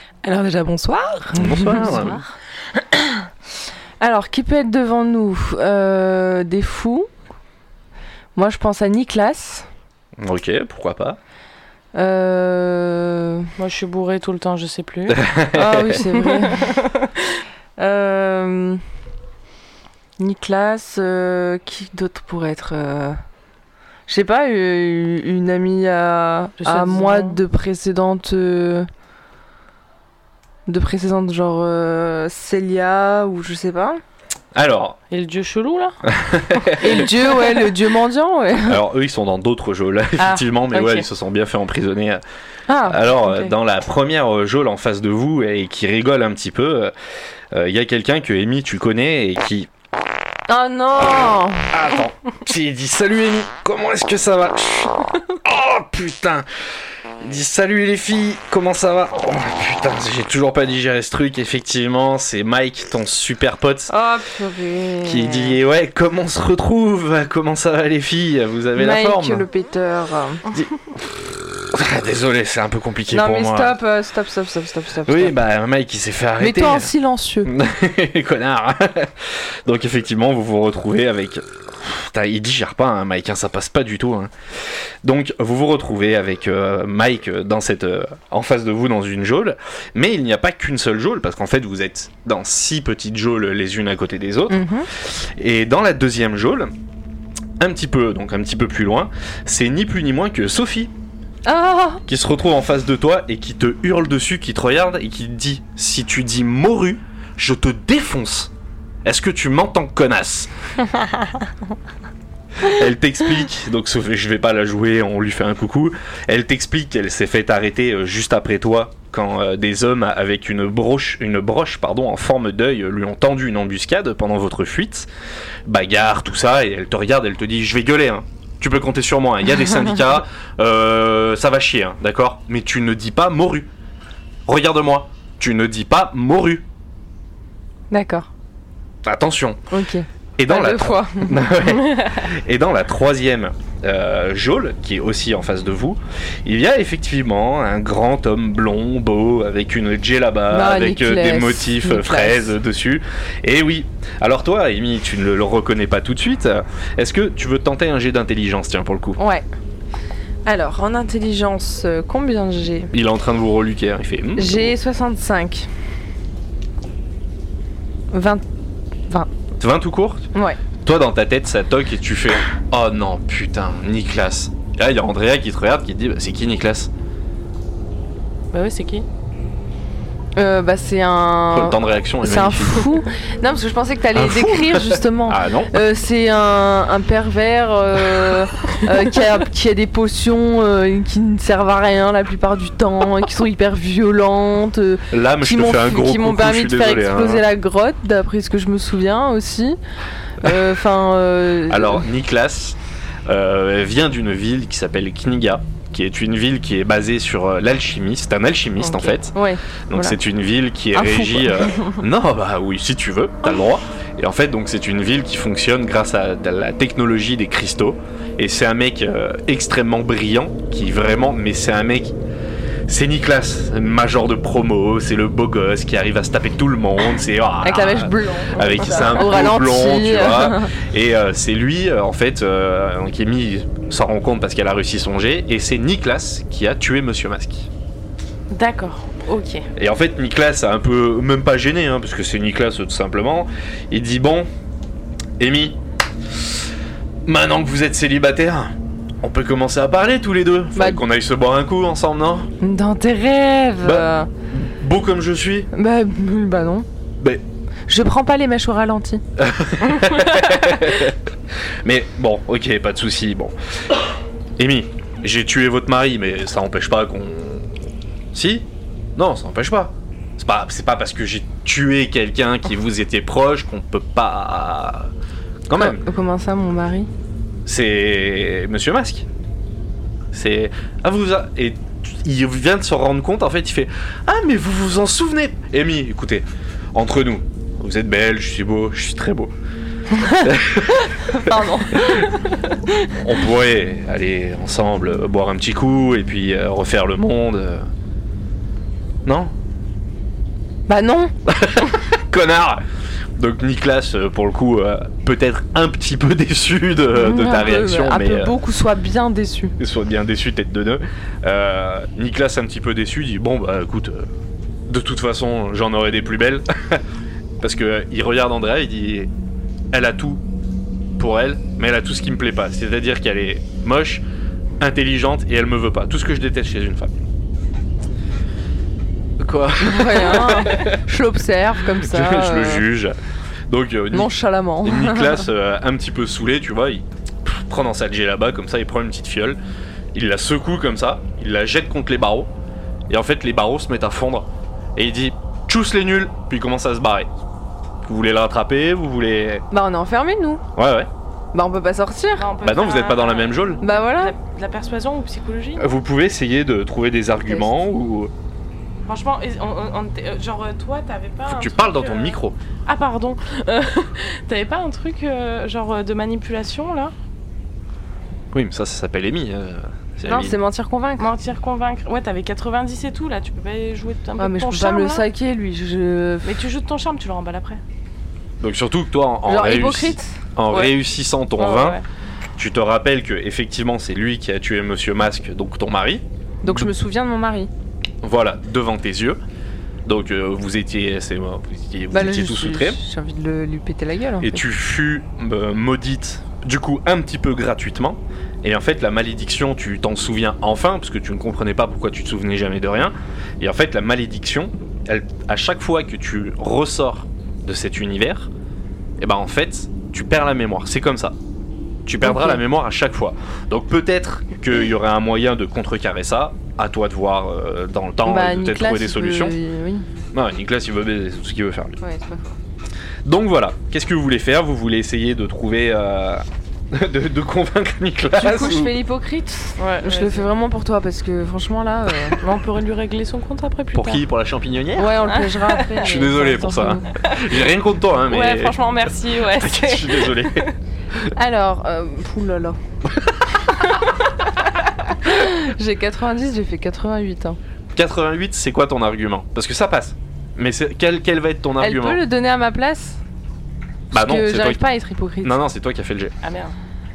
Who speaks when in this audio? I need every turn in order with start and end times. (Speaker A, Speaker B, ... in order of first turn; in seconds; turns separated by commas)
Speaker A: 0.2-2.2, Speaker B: 1.3-2.3, Speaker C: 1.3-2.2, Speaker A: 4.0-7.1, Speaker A: 8.3-9.7, Speaker C: 10.2-11.2, Speaker A: 11.9-13.5, Speaker B: 13.6-15.2, Speaker C: 15.1-16.0, Speaker A: 15.5-16.7, Speaker B: 16.2-17.1, Speaker A: 17.8-18.8, Speaker A: 20.2-23.2, Speaker A: 24.1-28.9, Speaker B: 26.6-27.4, Speaker A: 30.7-34.0, Speaker C: 34.5-35.0, Speaker B: 35.1-36.0, Speaker C: 36.0-37.1, Speaker A: 36.8-38.8, Speaker C: 38.6-42.2, Speaker A: 40.7-41.0, Speaker A: 42.7-43.5, Speaker C: 42.9-46.9, Speaker C: 47.5-49.7, Speaker A: 50.5-51.7, Speaker C: 51.7-56.5, Speaker C: 57.2-63.9, Speaker A: 63.9-65.6, Speaker C: 65.0-69.5, Speaker A: 68.8-70.4, Speaker C: 71.7-73.8, Speaker A: 73.1-75.3, Speaker C: 75.0-76.9, Speaker A: 76.4-77.5, Speaker C: 77.4-84.3, Speaker C: 85.0-96.7, Speaker A: 94.5-94.9, Speaker C: 97.6-100.9, Speaker A: 101.5-102.0, Speaker C: 102.1-108.5, Speaker C: 109.0-110.5, Speaker C: 112.6-125.1, Speaker C: 125.7-133.7, Speaker C: 134.4-136.6, Speaker A: 137.9-138.3, Speaker C: 139.0-139.6, Speaker A: 139.7-141.4, Speaker C: 140.4-159.2, Speaker A: 150.5-152.6, Speaker A: 159.2-159.4, Speaker A: 160.4-162.9, Speaker C: 162.9-164.7, Speaker A: 164.3-165.7, Speaker A: 168.1-168.4, Speaker C: 169.6-170.3, Speaker A: 170.3-170.6, Speaker C: 170.8-176.9, Speaker B: 178.5-179.1, Speaker A: 180.3-199.8, Speaker C: 181.5-182.9, Speaker C: 184.1-185.8, Speaker C: 195.1-197.4, Speaker A: 200.4-202.0, Speaker C: 201.7-209.3, Speaker A: 208.8-210.2, Speaker C: 209.9-222.2, Speaker A: 210.9-212.0, Speaker C: 222.9-237.7, Speaker A: 227.6-230.7, Speaker B: 238.5-239.7, Speaker C: 239.8-244.5, Speaker C: 245.4-245.8, Speaker C: 247.2-252.5, Speaker A: 250.7-251.0, Speaker A: 252.6-254.3, Speaker C: 253.8-255.7, Speaker A: 255.7-256.9, Speaker A: 257.9-259.2, Speaker C: 259.4-261.2, Speaker C: 261.8-264.0, Speaker C: 264.6-267.7, Speaker C: 268.3-275.1, Speaker C: 275.7-276.0, Speaker A: 275.7-277.1, Speaker C: 277.6-279.3, Speaker C: 280.3-289.5, Speaker A: 290.1-292.3, Speaker C: 290.3-292.3, Speaker C: 293.1-297.9, Speaker C: 299.2-299.5, Speaker A: 300.9-301.3, Speaker C: 301.4-302.8, Speaker C: 303.4-308.5, Speaker A: 307.1-309.7, Speaker C: 309.8-314.3, Speaker C: 314.9-317.0, Speaker C: 317.6-319.3, Speaker C: 319.9-320.4, Speaker C: 321.2-324.2, Speaker C: 324.8-327.2, Speaker C: 329.4-331.0, Speaker A: 329.8-332.9, Speaker C: 331.9-333.1, Speaker C: 333.7-339.6, Speaker A: 334.1-335.4, Speaker C: 340.1-342.5, Speaker C: 343.1-347.3, Speaker C: 348.0-349.6, Speaker A: 349.7-350.6, Speaker C: 350.8-351.1, Speaker A: 351.5-352.5, Speaker B: 352.4-355.9, Speaker C: 352.6-353.8, Speaker A: 353.8-354.3, Speaker C: 355.8-358.3, Speaker B: 359.1-367.1, Speaker C: 361.5-362.6, Speaker C: 368.5-370.6, Speaker A: 370.3-371.3, Speaker B: 371.2-375.2, Speaker A: 374.4-376.6, Speaker B: 376.4-377.8, Speaker C: 378.6-382.0, Speaker A: 379.4-380.4, Speaker B: 381.6-382.0, Speaker C: 382.6-386.9, Speaker A: 386.6-387.7, Speaker C: 388.2-389.4, Speaker C: 390.1-393.0, Speaker A: 392.1-394.6, Speaker C: 394.4-408.5, Speaker C: 409.2-411.4, Speaker C: 412.0-419.6, Speaker A: 412.2-412.6, Speaker A: 418.2-420.1, Speaker C: 420.3-422.0, Speaker A: 422.0-422.6, Speaker C: 423.2-428.9, Speaker A: 428.4-432.4, Speaker B: 429.8-430.5, Speaker B: 432.4-434.2, Speaker C: 433.9-435.3, Speaker A: 435.0-437.1, Speaker B: 435.3-436.2, Speaker C: 436.0-441.3, Speaker B: 437.2-437.6, Speaker B: 438.3-440.7, Speaker A: 441.3-442.8, Speaker C: 443.2-443.6, Speaker A: 445.1-447.6, Speaker C: 447.9-452.2, Speaker A: 451.8-453.2, Speaker C: 454.1-454.8, Speaker A: 454.1-455.6, Speaker C: 455.4-456.3, Speaker B: 456.4-456.7